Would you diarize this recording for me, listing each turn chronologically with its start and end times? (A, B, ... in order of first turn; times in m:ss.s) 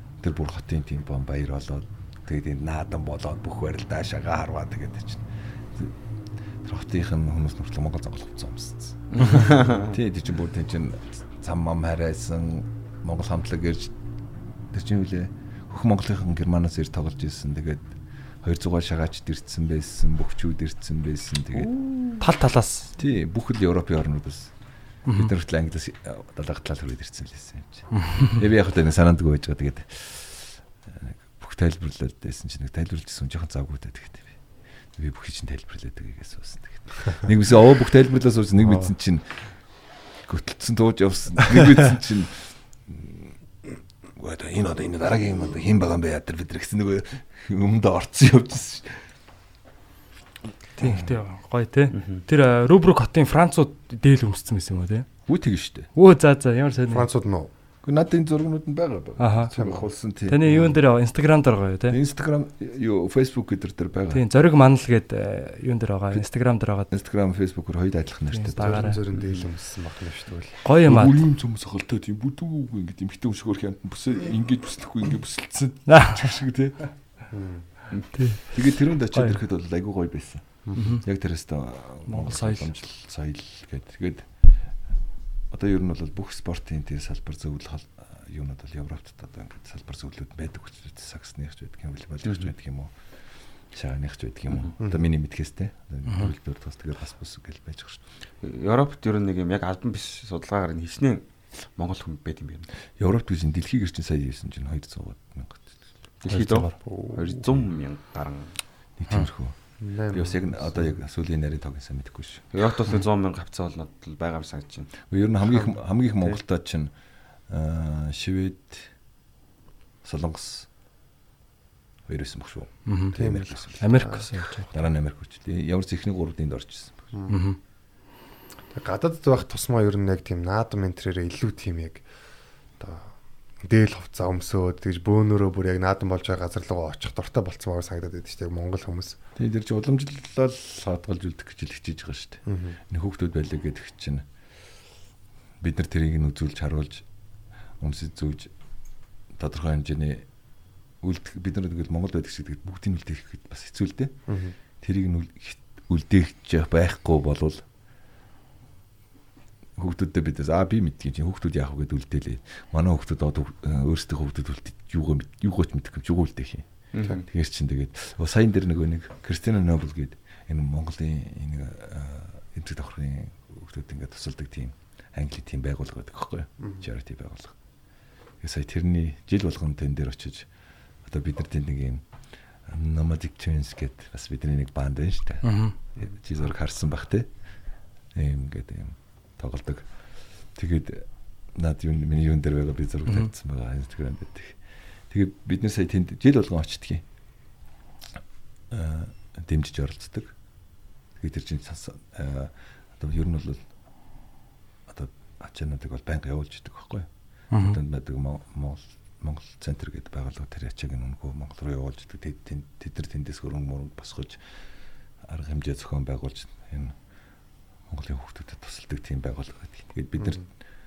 0:00.2-0:06.0 A
0:06.6-0:13.9 A
0:09.1-0:09.9 B
0:14.7-0:21.7 A
0:22.2-0:22.9 C
0:23.0-0:24.5 A
0:25.0-0:25.3 C
0:25.1-0:34.4 A
0:27.9-0:28.3 C
0:34.9-0:39.6 A
0:40.2-0:43.4 A
0:44.1-0:49.1 A
0:50.8-0:55.1 C
0:50.8-0:51.1 A
0:55.3-0:55.9 A
0:55.9-0:57.1 C
0:56.9-0:57.5 D
0:57.8-1:00.8 A
0:59.2-0:59.5 C
0:59.5-0:59.9 D
1:00.3-1:02.0 C
1:01.9-1:04.2 A
1:04.1-1:06.9 C
1:06.9-1:09.0 A
1:08.3-1:09.0 C
1:08.5-1:10.7 D
1:09.1-1:09.5 B
1:10.6-1:11.2 C
1:10.8-1:16.8 A
1:15.9-1:16.3 C
1:17.3-1:17.7 D
1:18.1-1:18.4 C
1:18.5-1:24.4 A
1:20.7-1:21.0 C
1:22.1-1:22.7 C
1:25.5-1:32.9 A
1:32.2-1:32.5 B
1:33.7-1:38.0 A
1:34.8-1:35.1 D
1:38.4-1:42.7 B
1:43.0-1:46.7 A
1:46.2-1:48.6 B
1:46.8-1:47.5 D
1:49.0-1:49.6 A
1:49.8-1:50.9 D
1:50.1-1:52.4 A
1:52.5-1:54.9 B
1:55.1-1:56.9 A
1:55.5-1:56.4 D
1:57.5-1:58.9 A
2:00.0-2:00.7 A
2:02.1-2:04.1 A
2:02.8-2:03.1 C
2:03.1-2:04.3 D
2:03.8-2:04.7 C
2:04.7-2:07.1 A
2:07.1-2:07.4 D
2:07.3-2:07.6 C
2:08.7-2:12.0 D
2:12.8-2:19.2 D
2:19.4-2:24.2 A
2:22.5-2:22.8 D
2:25.6-2:27.0 A
2:27.8-2:28.5 A
2:29.3-2:30.3 A
2:31.0-2:34.2 A
2:34.3-2:34.5 D
2:34.8-2:37.6 A
2:39.8-2:46.7 A
2:46.9-2:47.2 B
2:47.3-2:57.6 A
2:58.4-3:00.5 A
3:01.0-3:02.0 A
3:02.6-3:07.3 A
3:05.4-3:05.8 C
3:08.1-3:09.9 A
3:10.5-3:14.6 A
3:15.1-3:17.0 A
3:18.7-3:20.3 A
3:21.2-3:23.7 A
3:24.9-3:34.4 A
3:27.5-3:27.8 C
3:35.2-3:37.0 A
3:37.9-3:40.5 A
3:40.2-3:40.4 D